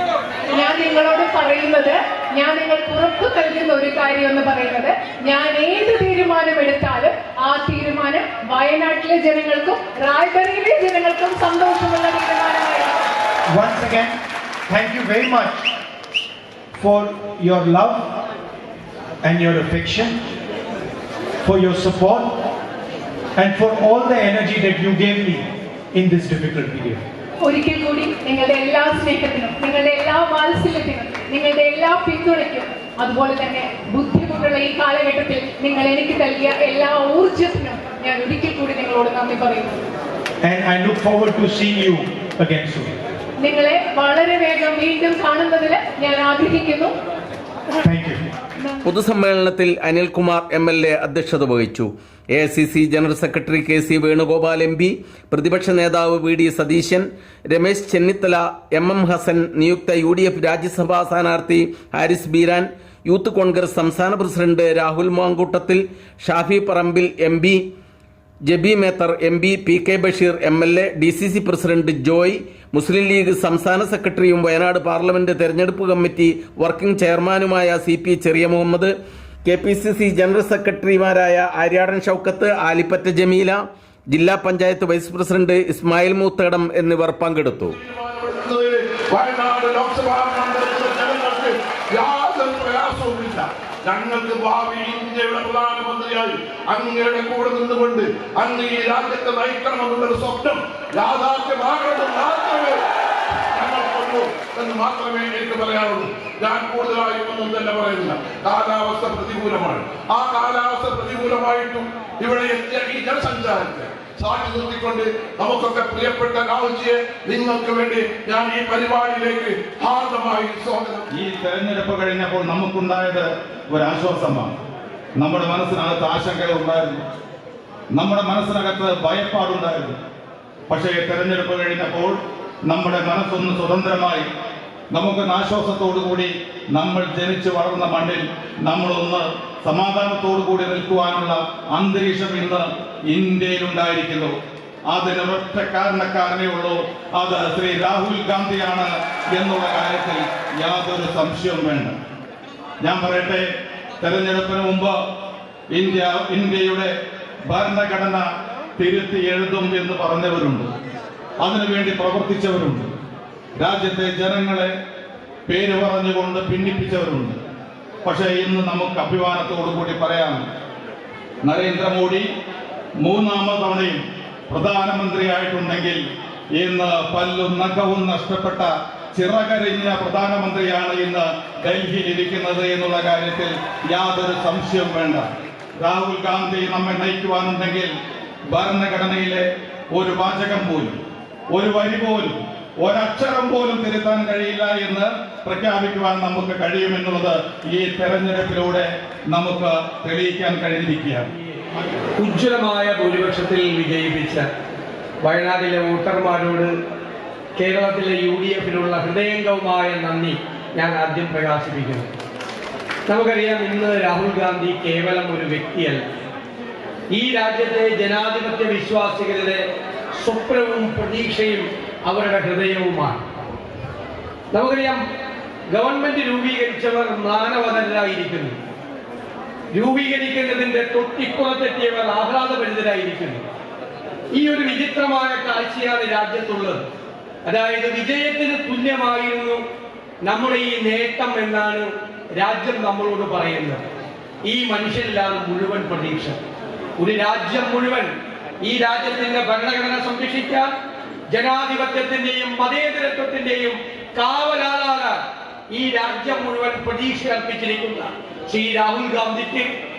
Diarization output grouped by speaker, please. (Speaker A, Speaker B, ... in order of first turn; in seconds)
Speaker A: 0.5-13.0, 27.4-39.8, 43.4-46.9
Speaker B: 13.5-14.1, 14.7-15.7, 16.8-18.2, 19.2-20.2, 21.4-22.4, 23.4-27.0, 40.4-42.9, 47.8-48.2
Speaker C: 48.8-67.6, 68.5-78.9, 79.4-83.6, 84.1-87.7
Speaker D: 87.8-102.8, 103.5-121.1
Speaker E: 121.1-124.5, 125.2-127.0, 127.9-130.0, 130.7-134.3, 134.9-144.4, 144.9-152.0, 152.8-153.5, 154.0-154.9, 155.7-156.9, 157.5-158.2, 158.8-160.7, 161.4-162.9, 163.6-164.7, 165.5-167.4, 168.1-170.4, 171.4-172.3, 173.0-176.0, 176.6-185.2, 185.8-187.9, 188.5-191.0, 191.5-201.3
Speaker F: 202.2-204.5, 205.2-206.8, 207.6-212.1, 213.1-216.0, 217.1-223.2, 224.5-225.0, 225.7-228.6, 229.7-233.4, 234.3-236.8, 237.4-239.6, 240.2-243.8, 244.5-246.4, 247.0-250.7, 251.3-255.2, 255.7-259.7